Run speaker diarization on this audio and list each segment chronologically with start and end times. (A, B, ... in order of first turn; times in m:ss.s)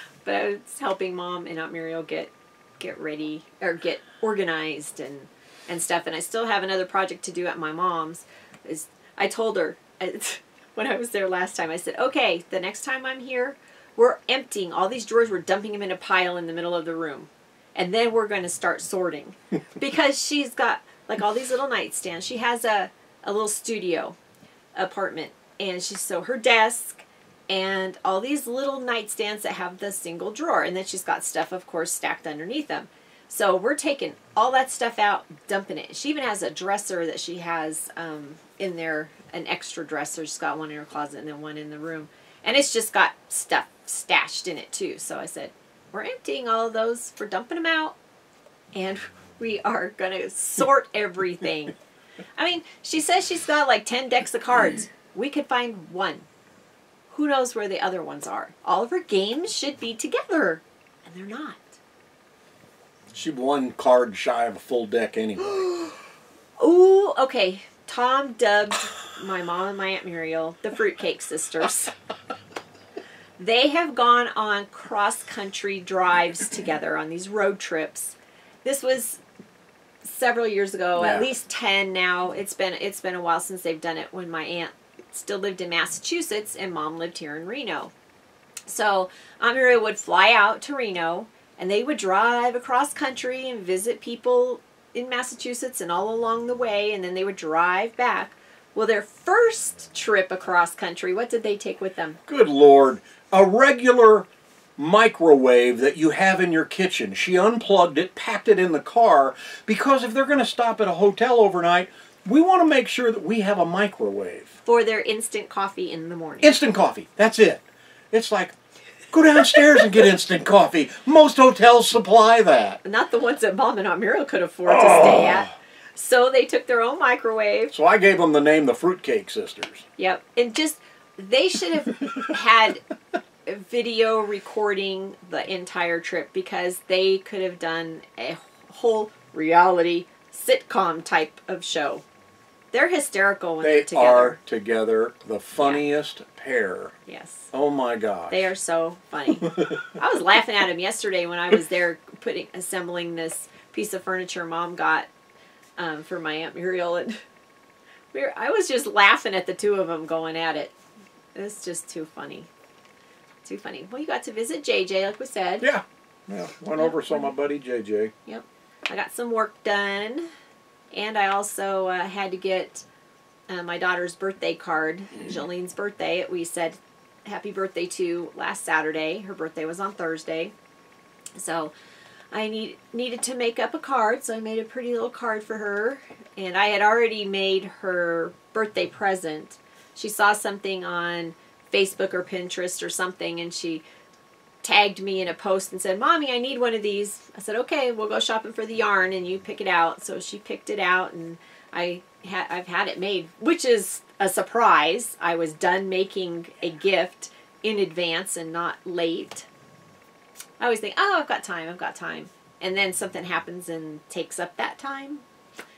0:00.2-0:24.2 A
0:24.8-0:48.0 A
0:48.7-0:51.7 A
0:52.4-0:56.2 A
0:57.1-1:01.8 A
1:03.1-1:05.7 B
1:06.6-1:11.9 A
1:13.4-1:19.2 A
1:20.0-1:27.9 A
1:20.9-1:21.3 B
1:28.7-1:42.2 A
1:42.3-1:54.5 B
1:54.6-1:56.5 A
1:56.4-1:58.5 B
1:59.1-2:02.8 B
2:02.8-2:07.7 A
2:04.7-2:05.5 B
2:07.7-2:09.8 B
2:10.0-2:12.8 A
2:13.4-2:22.0 A
2:22.7-2:24.4 A
2:23.6-2:26.9 B
2:27.1-2:27.5 A
2:27.5-2:28.5 B
2:28.3-2:35.1 A
2:29.4-2:29.8 B
2:35.8-2:37.2 A
2:38.1-2:40.7 A
2:41.3-2:42.5 A
2:43.4-2:45.7 A
2:45.6-2:48.1 B
2:46.8-2:47.3 A
2:48.2-2:50.3 A
2:50.9-2:52.8 A
2:53.5-3:00.5 A
3:01.4-3:01.7 A
3:02.3-3:13.8 A
3:14.6-3:29.5 A
3:30.6-3:35.2 A